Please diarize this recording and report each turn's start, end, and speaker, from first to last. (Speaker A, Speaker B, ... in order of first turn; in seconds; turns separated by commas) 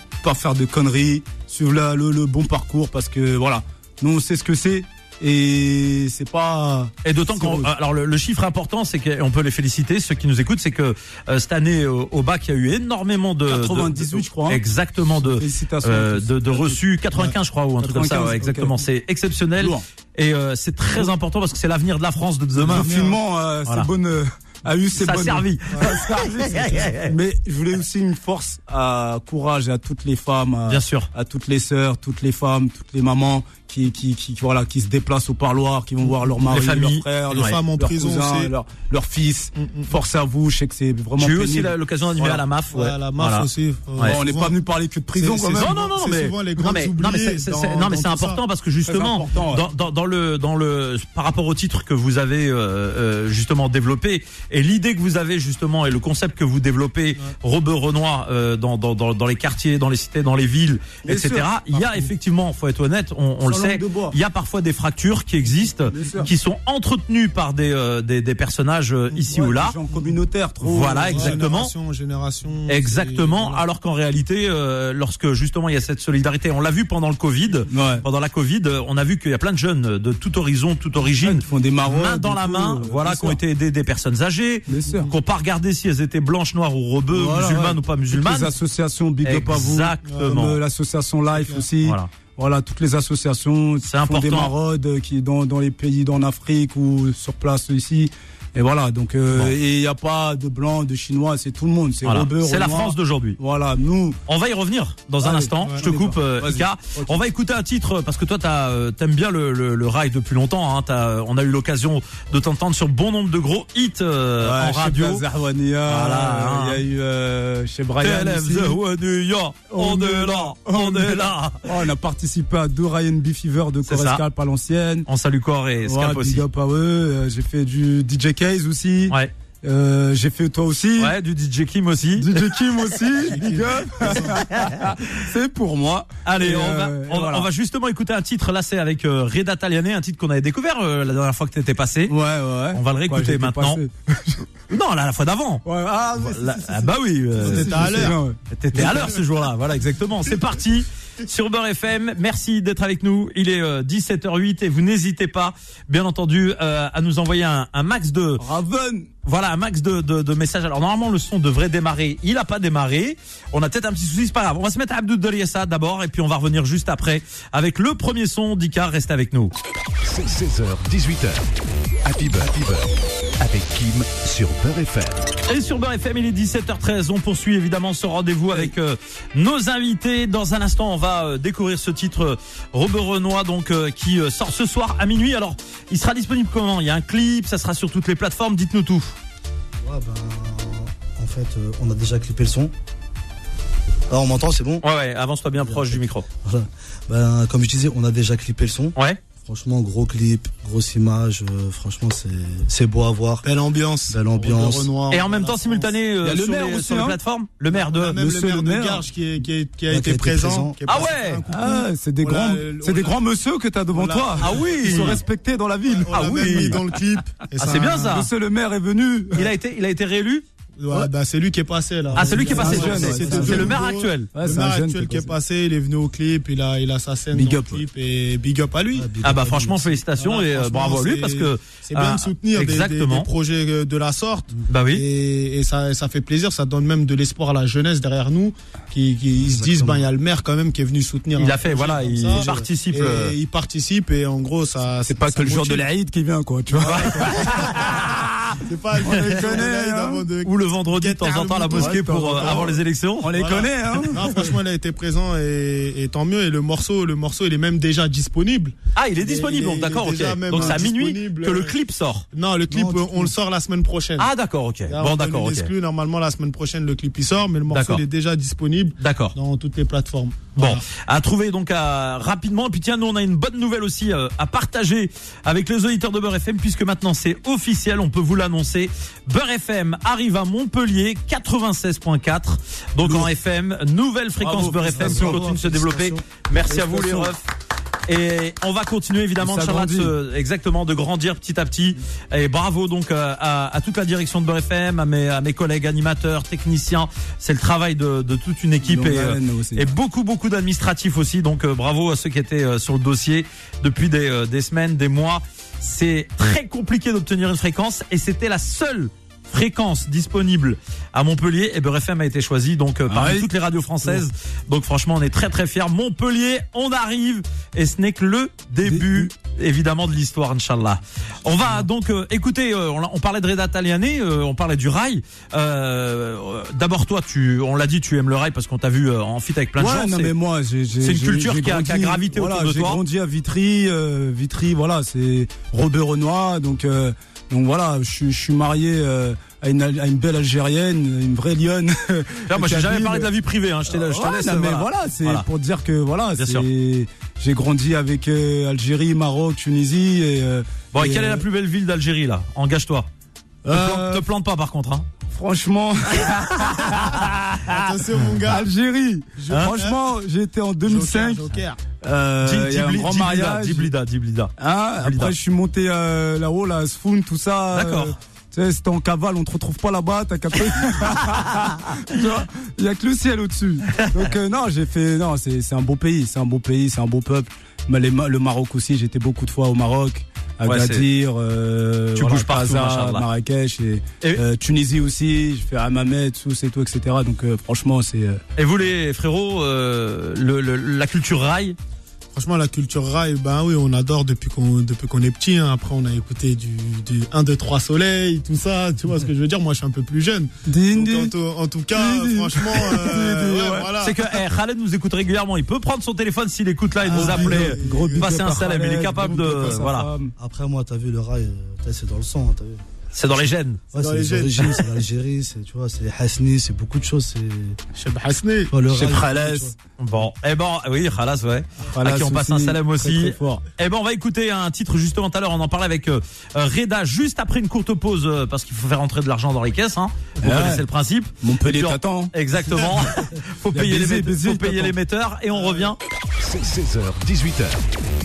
Speaker A: 0.2-7.7, Speaker B: 7.0-22.9, Speaker A: 13.5-18.8, Speaker A: 19.6-19.9, Speaker C: 22.6-23.2, Speaker A: 22.6-42.4, Speaker B: 24.9-27.1, Speaker B: 30.7-31.1, Speaker B: 36.4-37.6, Speaker C: 37.3-38.5, Speaker C: 39.6-39.9, Speaker B: 41.2-44.2, Speaker C: 42.7-44.6, Speaker A: 44.0-45.8, Speaker C: 45.1-48.4, Speaker B: 45.6-69.8, Speaker A: 48.9-49.6, Speaker A: 61.0-61.5, Speaker C: 61.7-62.1, Speaker A: 63.4-64.2, Speaker A: 65.9-66.3, Speaker A: 69.3-71.4, Speaker B: 70.6-71.7, Speaker C: 71.1-73.7, Speaker B: 72.7-88.5, Speaker A: 77.7-78.0, Speaker A: 81.2-83.4, Speaker A: 84.7-85.1, Speaker C: 84.8-85.2, Speaker A: 87.1-104.2, Speaker B: 89.2-90.6, Speaker C: 90.1-90.3, Speaker C: 91.3-91.7, Speaker B: 91.8-92.1, Speaker B: 93.9-94.5, Speaker B: 102.0-103.4, Speaker B: 104.3-115.2, Speaker A: 105.2-107.2, Speaker A: 114.4-118.8, Speaker B: 115.9-116.8, Speaker B: 118.0-121.7, Speaker A: 119.7-125.1, Speaker B: 123.9-124.2, Speaker B: 125.1-126.5, Speaker A: 125.8-131.1, Speaker B: 131.0-132.3, Speaker A: 132.2-137.5, Speaker C: 133.2-134.5, Speaker B: 136.2-142.2, Speaker A: 142.1-144.5, Speaker B: 142.7-143.8, Speaker B: 144.7-145.6, Speaker A: 145.7-149.2, Speaker B: 146.2-158.4, Speaker C: 147.4-148.2, Speaker C: 148.8-149.2, Speaker A: 158.4-159.1, Speaker B: 159.2-169.5, Speaker D: 170.0-175.3, Speaker B: 175.5-189.2, Speaker E: 189.8-192.7, Speaker E: 194.1-194.8, Speaker B: 194.8-196.3, Speaker E: 195.6-203.4, Speaker C: 203.4-205.9, Speaker E: 204.1-204.9, Speaker B: 205.1-208.2, Speaker A: 206.2-207.2, Speaker C: 207.7-213.2, Speaker A: 208.2-209.0, Speaker E: 209.9-211.0, Speaker B: 210.9-211.4, Speaker A: 211.5-216.9, Speaker C: 213.9-215.2, Speaker B: 214.4-215.2, Speaker C: 215.8-218.1, Speaker B: 216.1-216.8, Speaker B: 217.6-218.3, Speaker A: 218.0-219.5, Speaker B: 219.3-220.4, Speaker C: 220.8-229.2, Speaker E: 222.2-223.8, Speaker B: 222.2-224.3, Speaker A: 222.2-223.8, Speaker A: 224.3-225.3, Speaker A: 227.3-227.8, Speaker E: 228.9-230.1, Speaker B: 229.2-233.3, Speaker C: 230.2-245.8, Speaker B: 234.7-235.0, Speaker E: 239.4-240.1, Speaker B: 241.3-243.3, Speaker E: 242.3-242.7, Speaker A: 245.1-250.3, Speaker C: 246.7-261.8, Speaker B: 246.8-248.0, Speaker B: 249.1-249.6, Speaker B: 250.4-253.3, Speaker A: 251.7-254.6, Speaker B: 258.9-262.3, Speaker E: 260.5-260.8, Speaker C: 262.3-264.3, Speaker E: 262.7-263.3, Speaker B: 264.2-265.7, Speaker C: 264.9-270.8, Speaker B: 267.7-268.0, Speaker B: 269.0-269.4, Speaker B: 270.6-287.5, Speaker A: 283.0-283.3, Speaker A: 284.4-285.5, Speaker E: 284.9-286.2, Speaker A: 286.6-287.3, Speaker B: 288.1-330.3, Speaker A: 289.4-290.1, Speaker A: 298.8-299.9, Speaker A: 313.1-313.5, Speaker A: 318.8-319.3, Speaker A: 329.8-343.3, Speaker B: 331.0-333.0, Speaker B: 342.5-345.4, Speaker A: 343.9-351.4, Speaker B: 346.4-346.7, Speaker B: 350.9-353.1, Speaker A: 353.6-354.3, Speaker B: 353.7-355.1, Speaker A: 355.3-361.4, Speaker C: 357.7-358.7, Speaker C: 359.4-360.0, Speaker B: 359.5-359.7, Speaker C: 360.9-361.8, Speaker A: 362.0-363.9, Speaker B: 362.4-365.4, Speaker A: 364.6-388.4, Speaker B: 367.7-368.1, Speaker B: 374.0-374.2, Speaker B: 380.6-381.1, Speaker B: 382.1-383.3, Speaker B: 388.6-391.8, Speaker C: 392.3-404.2, Speaker A: 400.7-401.3, Speaker A: 401.9-404.1, Speaker B: 404.0-410.1, Speaker C: 407.0-409.8, Speaker A: 407.1-410.3, Speaker E: 410.4-412.8, Speaker B: 413.1-413.8, Speaker E: 413.9-417.8, Speaker C: 413.9-414.9, Speaker C: 417.9-418.8, Speaker E: 418.7-419.7, Speaker A: 418.9-419.7, Speaker B: 420.0-436.0, Speaker A: 421.9-423.6, Speaker A: 430.4-430.9, Speaker A: 431.4-433.0, Speaker A: 433.7-434.9, Speaker C: 435.5-435.9, Speaker D: 436.4-437.8